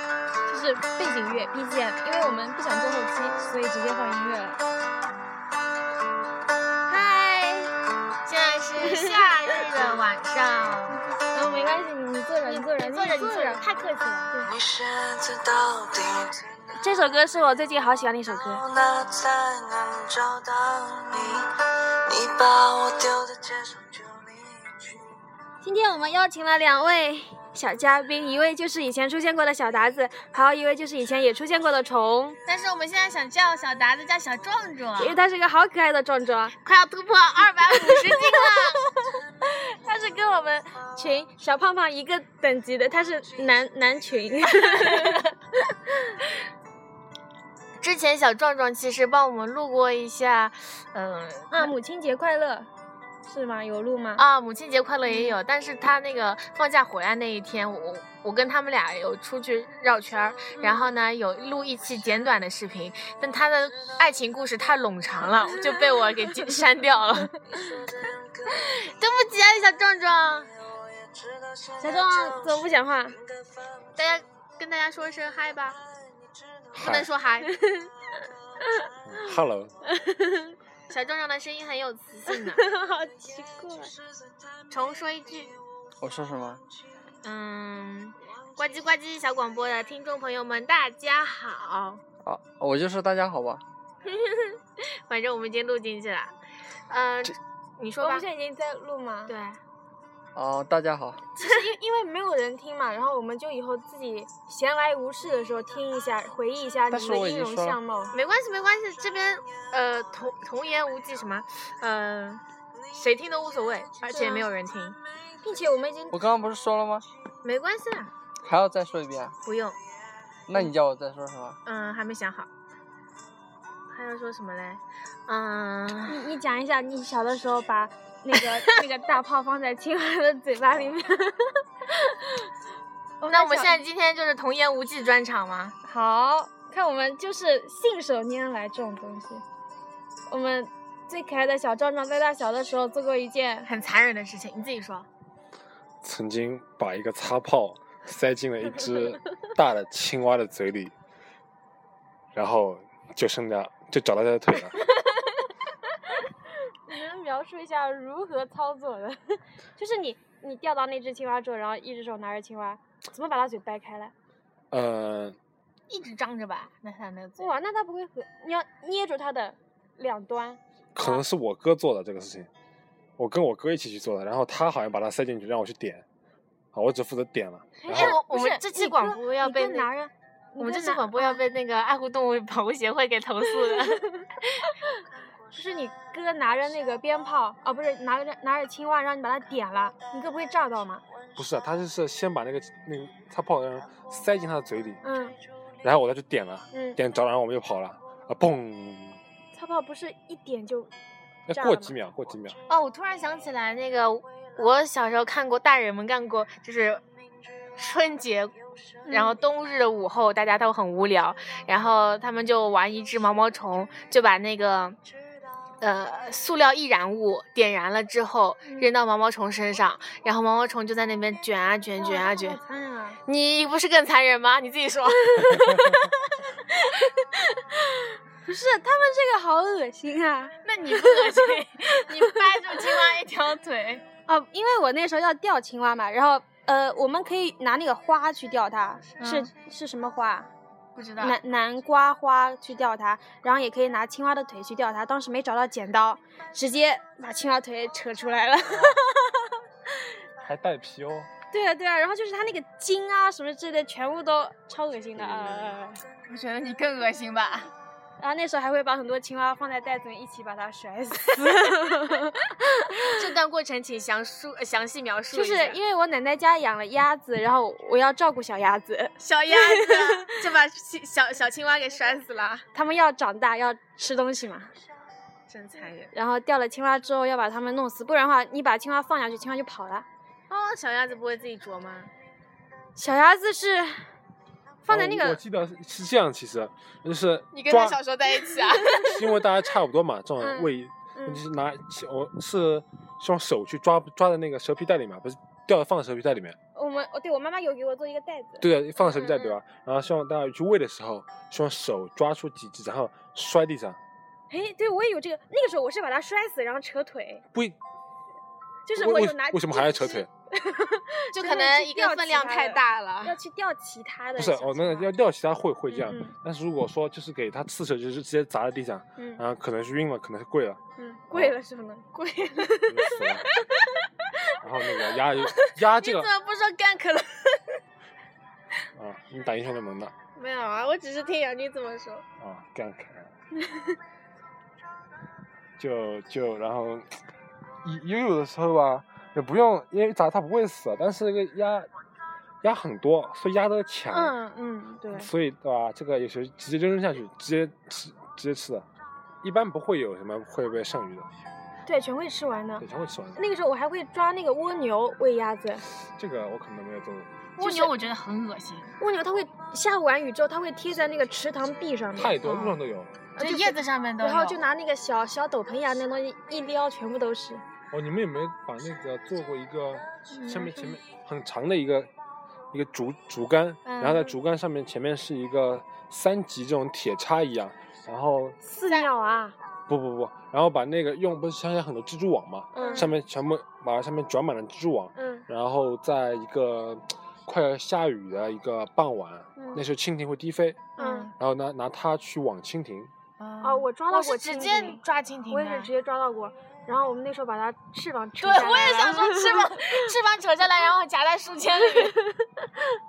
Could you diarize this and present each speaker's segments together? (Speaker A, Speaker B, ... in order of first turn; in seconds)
Speaker A: 0.5-4.6, 6.9-7.7, 8.8-9.6, 11.3-13.7, 16.8-18.6, 25.6-32.4, 35.0-36.6, 37.7-46.1, 51.5-52.7, 53.2-54.2, 55.1-55.4, 60.5-60.9, 71.8-73.2, 77.5-77.9, 79.9-80.5, 82.3-84.0, 98.0-99.3, 101.4-108.2, 114.1-114.5, 115.4-116.2, 126.1-132.5, 133.2-133.8, 135.8-139.4, 140.3-143.7, 156.9-164.1, 167.4-171.2, 177.8-181.4, 183.7-183.9, 185.5-191.0, 195.0-195.4, 196.7-197.0, 199.5-200.9, 201.5-201.9, 209.1-209.4, 222.0-223.2, 225.3-226.0, 226.8-227.1, 227.8-233.1, 234.3-240.5, 241.2-249.5, 251.5-256.0, 258.2-263.1, 265.3-270.4, 272.7-274.7, 276.1-280.1, 283.0-284.1, 284.9-285.4, 290.4-291.4, 296.8-298.7, 304.5-307.4, 308.9-315.1, 315.9-316.4, 319.2-319.4, 321.0-323.6, 325.4-325.7, 344.1-345.3, 351.9-352.9, 353.4-355.9, 357.6-357.9, 359.0-362.8, 363.4-367.6, 370.3-371.0, 378.6-379.6, 382.7-383.1, 385.2-385.5, 389.6-389.8, 391.0-391.3, 393.6-400.0, 402.1-402.7
Speaker B: 8.2-11.0, 12.5-14.5, 32.5-35.2, 36.6-38.9, 44.6-45.2, 47.8-51.7, 54.2-67.4, 68.6-70.5, 74.0-75.8, 76.8-77.5, 80.9-82.6, 84.7-85.5, 87.2-92.0, 94.0-96.3, 96.9-98.2, 99.3-99.6, 108.1-112.4, 112.9-115.0, 117.4-118.1, 119.5-119.8, 121.7-122.5, 123.9-126.2, 133.3-135.8, 143.7-145.1, 165.9-167.6, 177.9-179.9, 180.6-184.7, 202.7-207.0, 207.8-208.6, 209.1-215.0, 215.8-222.6, 223.2-226.0, 230.7-234.0, 239.2-239.5, 240.9-241.4, 256.2-257.7, 263.0-265.8, 269.2-272.7, 275.5-276.1, 280.5-282.1, 287.5-289.2, 299.0-299.6, 311.3-313.4, 325.9-327.8, 330.4-332.2, 357.6-359.0, 362.4-362.8, 363.4-364.6, 373.9-374.4, 382.8-383.1, 391.0-391.4, 393.4-395.9, 398.4-402.2
Speaker C: 14.5-16.3, 18.7-21.4, 22.1-24.2
Speaker D: 76.7-77.1, 79.1-79.8, 146.0-150.9, 152.3-154.8, 164.7-165.4, 170.9-172.5, 173.2-176.1, 176.7-178.2, 191.4-195.0, 195.8-199.2, 201.5-202.6, 250.4-251.3, 255.2-255.8, 284.9-288.0, 289.0-296.6, 298.6-304.0, 307.5-307.8, 308.9-310.3, 314.4-320.8, 322.9-323.5, 324.6-326.3, 328.9-330.1, 332.4-333.3, 335.8-337.2, 337.8-341.9, 342.6-344.4, 345.1-348.9, 349.4-351.3, 352.8-353.4, 356.2-357.3, 362.1-363.3, 367.9-372.1, 372.7-378.6, 379.9-393.1
Speaker E: 86.0-86.6, 92.2-93.6, 100.3-101.2, 106.9-107.8, 116.1-117.1, 118.4-119.4, 120.5-121.6